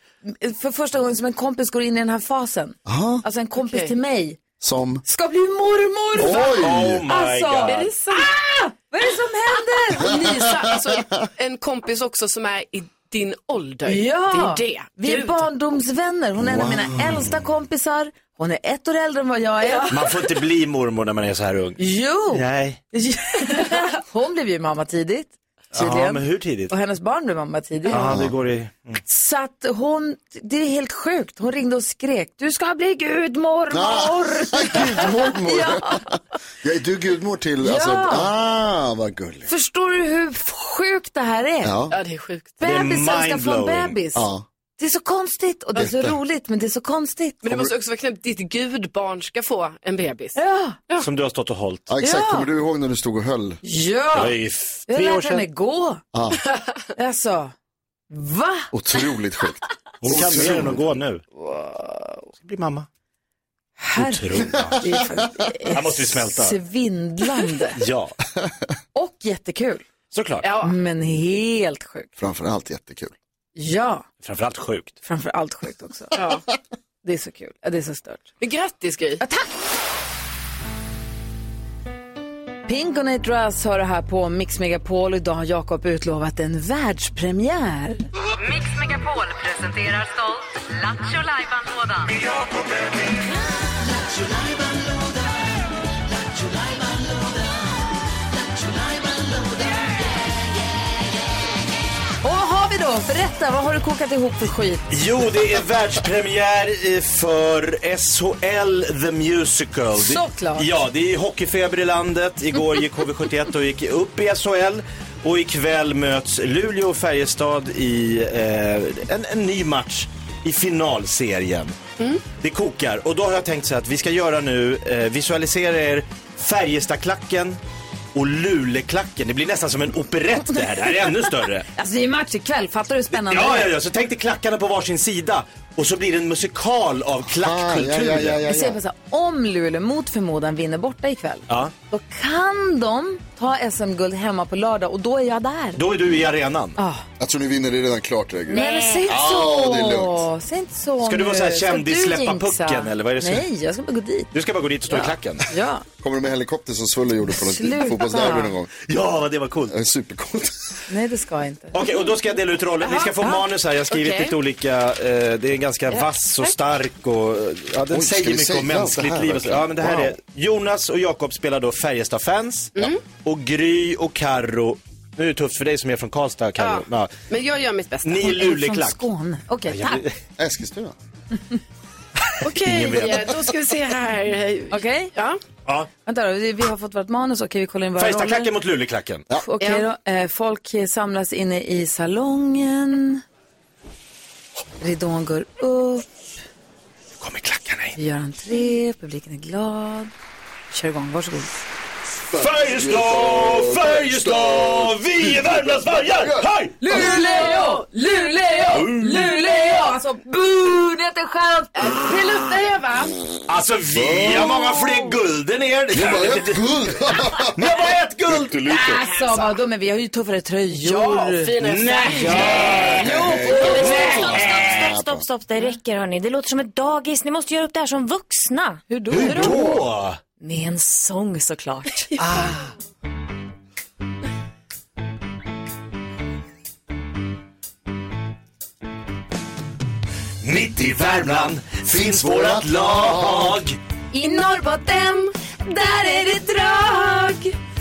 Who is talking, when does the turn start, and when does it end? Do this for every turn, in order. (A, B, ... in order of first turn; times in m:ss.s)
0:00.2-0:04.4 A
0:02.9-0:03.2 B
0:03.6-0:03.9 C
0:04.6-0:05.0 B
0:05.0-0:10.8 A
0:06.2-0:07.0 B
0:06.6-0:07.9 D
0:07.7-0:08.4 C
0:10.1-0:15.5 C
0:13.8-0:20.1 A
0:16.4-0:17.4 B
0:19.9-0:21.8 D
0:21.8-0:28.1 A
0:22.3-0:22.8 D
0:25.7-0:26.7 D
0:27.9-0:29.0 D
0:27.9-0:28.3 B
0:29.1-0:36.0 A
0:33.7-0:39.5 B
0:37.6-0:38.3 A
0:39.5-0:41.7 A
0:41.6-0:42.0 B
0:41.9-0:42.6 C
0:42.6-0:44.3 A
0:42.6-0:44.0 D
0:44.2-0:44.4 B
0:44.8-0:47.6 A
0:45.8-0:46.2 B
0:47.4-0:50.4 C
0:50.4-0:50.8 A
0:51.0-0:51.9 D
0:51.9-0:53.6 B
0:52.0-0:52.5 A
0:53.6-0:54.3 A
0:54.2-0:55.4 D
0:54.9-0:56.0 A
0:56.1-0:56.4 B
0:57.0-0:57.5 A
0:58.1-0:58.7 A
0:58.7-1:00.8 B
1:00.0-1:01.2 D
1:01.6-1:02.1 A
1:02.4-1:02.9 D
1:03.8-1:07.8 A
1:04.0-1:04.8 D
1:05.7-1:06.6 D
1:07.8-1:08.2 D
1:09.0-1:09.9 A
1:10.1-1:10.5 D
1:10.4-1:10.8 C
1:10.6-1:12.1 A
1:12.2-1:13.1 B
1:13.6-1:14.1 A
1:14.2-1:15.0 D
1:15.0-1:16.2 A
1:16.2-1:16.4 C
1:17.0-1:18.3 A
1:18.4-1:19.2 C
1:19.2-1:19.5 A
1:22.7-1:28.0 A
1:28.4-1:32.1 E
1:42.2-1:44.9 A
1:44.9-2:01.8 D
1:50.0-1:50.7 A
2:02.4-2:07.6 D
2:08.1-2:11.7 D
2:11.7-2:13.7 A
2:13.1-2:18.4 D
2:17.3-2:18.8 B
2:18.5-2:25.8 A
2:25.8-2:26.8 D
2:26.8-2:27.0 A
2:27.2-2:30.2 B
2:28.5-2:29.1 F
2:28.5-2:34.3 A
2:31.0-2:33.5 D
2:34.3-2:35.5 D
2:34.9-2:35.8 A
2:36.0-2:38.7 B
2:37.3-2:38.6 A
2:38.8-2:39.8 D
2:39.7-2:40.8 B
2:40.9-2:41.8 A
2:41.7-2:57.1 D
2:42.8-2:44.4 C
2:45.9-2:46.5 C
2:47.9-2:50.2 B
2:56.6-2:58.4 C
2:58.0-2:59.0 D
2:58.2-3:00.0 A
2:59.7-3:00.2 D
3:00.4-3:01.0 B
3:02.4-3:05.4 C
3:02.5-3:03.5 D
3:04.7-3:05.1 A
3:06.0-3:08.5 A
3:08.0-3:09.3 D
3:09.4-3:13.2 A
3:09.6-3:09.9 C
3:14.8-3:16.1 A
3:17.2-3:18.0 D
3:18.0-3:20.1 A
3:20.7-3:21.5 A
3:22.3-3:26.5 B
3:22.3-3:27.0 D
3:26.8-3:32.1 A
3:27.0-3:28.6 C
3:31.7-3:33.2 C
3:33.5-3:36.7 D
3:33.9-3:34.7 B
3:35.9-3:37.6 B
3:37.4-3:39.0 D
3:38.3-3:39.0 B
3:38.7-3:41.6 A
3:40.8-3:44.3 C
3:41.6-3:44.9 D
3:42.2-3:44.2 A
3:42.9-3:45.3 B
3:44.3-3:48.8 F
3:48.9-3:49.8 A
3:49.1-3:50.2 D
3:50.4-3:52.1 F
3:52.2-3:52.6 D
4:00.4-4:03.8 D
4:02.4-4:03.6 B
4:04.1-4:07.5 A